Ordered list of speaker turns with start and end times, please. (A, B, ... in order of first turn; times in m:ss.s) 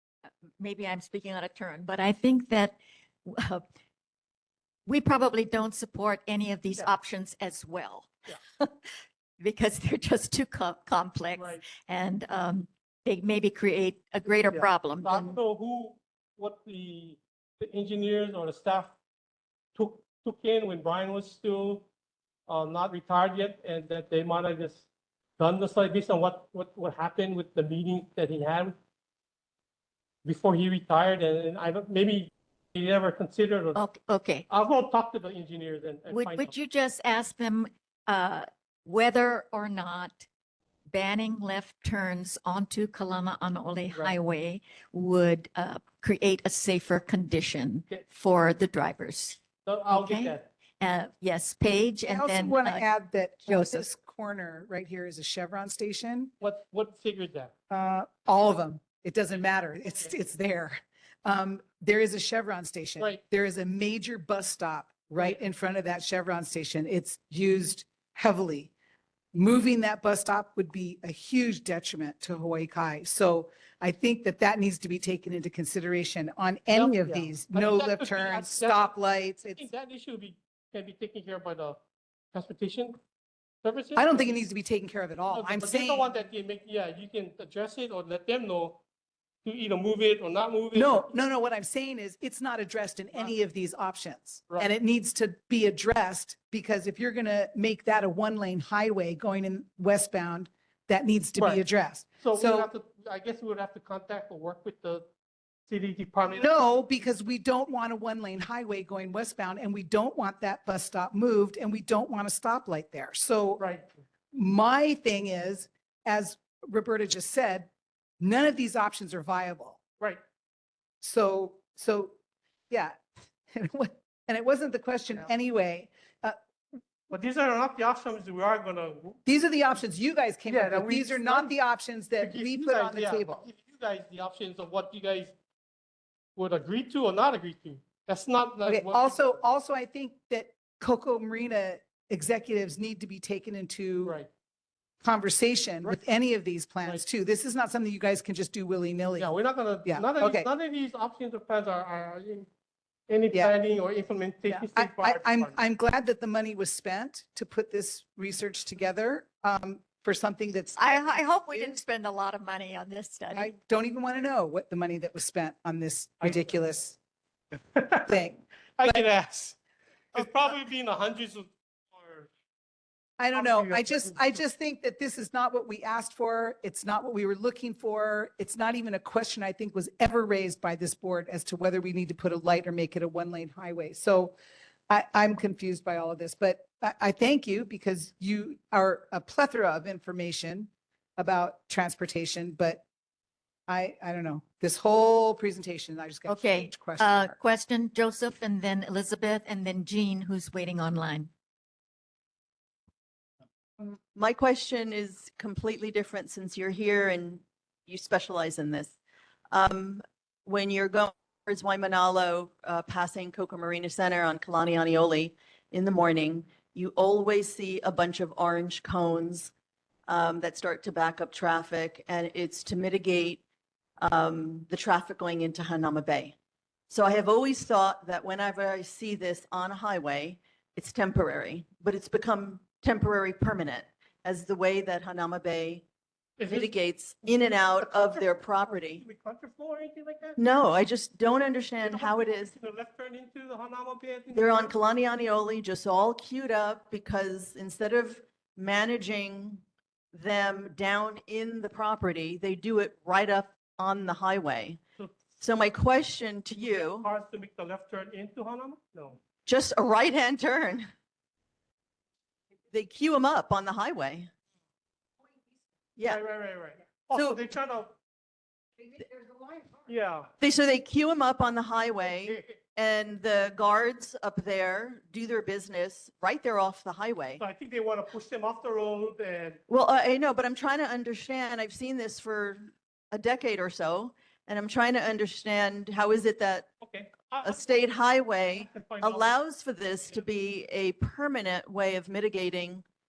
0:00.6-0:03.6 A
0:04.9-0:08.9 A
0:09.4-0:15.4 A
0:11.4-0:11.7 B
0:14.5-0:18.9 B
0:19.8-0:21.9 B
0:22.5-0:24.9 B
0:25.4-0:28.8 B
0:30.2-0:33.8 B
0:33.8-0:34.5 A
0:34.5-0:36.5 B
0:36.1-0:40.3 A
0:40.9-0:52.9 A
0:49.6-0:50.5 B
0:52.1-0:56.3 C
0:53.5-0:53.9 A
0:56.4-0:57.5 B
0:57.7-1:08.7 C
1:09.3-1:19.7 C
1:16.7-1:18.9 B
1:19.6-1:21.8 B
1:22.3-1:23.0 B
1:23.6-1:24.4 B
1:24.0-1:26.1 C
1:25.3-1:28.8 B
1:29.4-1:31.1 B
1:30.7-1:42.7 C
1:41.4-1:41.6 B
1:42.2-1:45.1 B
1:45.7-1:46.5 B
1:46.3-1:53.6 C
1:53.6-1:53.9 B
1:54.3-1:57.7 C
1:58.2-1:59.8 C
2:01.0-2:02.2 C
2:02.7-2:06.4 C
2:07.1-2:09.2 B
2:09.3-2:13.5 C
2:10.5-2:11.5 B
2:12.2-2:15.4 B
2:16.4-2:19.4 B
2:18.7-2:24.2 C
2:24.0-2:24.3 B
2:25.0-2:29.3 C
2:29.2-2:32.5 B
2:29.8-2:30.5 C
2:33.1-2:35.6 B
2:34.5-2:41.8 C
2:40.8-2:43.5 A
2:43.3-2:47.0 C
2:47.7-2:48.1 B
2:48.1-2:49.0 C
2:48.8-2:49.6 B
2:50.2-2:52.3 B
2:53.2-3:04.4 C
2:53.3-2:54.4 B
3:04.9-3:12.8 C
3:13.7-3:17.4 C
3:16.3-3:21.3 A
3:23.8-3:29.0 D
3:29.5-3:39.5 D
3:40.1-3:43.4 D
3:44.0-3:46.4 D
3:46.9-3:55.8 D
3:56.4-3:56.8 B
3:56.5-3:59.0 D
3:57.8-4:00.4 B
4:00.4-4:02.6 D
4:01.8-4:04.7 B
4:04.3-4:14.8 D
4:15.4-4:17.1 D
4:16.6-4:19.2 B
4:19.5-4:20.9 D
4:22.7-4:24.3 D
4:26.0-4:26.2 D
4:26.1-4:27.9 B
4:27.1-4:27.4 D
4:29.9-4:30.3 B
4:30.4-4:37.4 D
4:32.2-4:32.6 B
4:37.4-4:39.6 B
4:39.7-4:46.7 D
4:46.8-4:47.9 B
4:47.4-4:52.8 D
4:48.6-4:49.4 B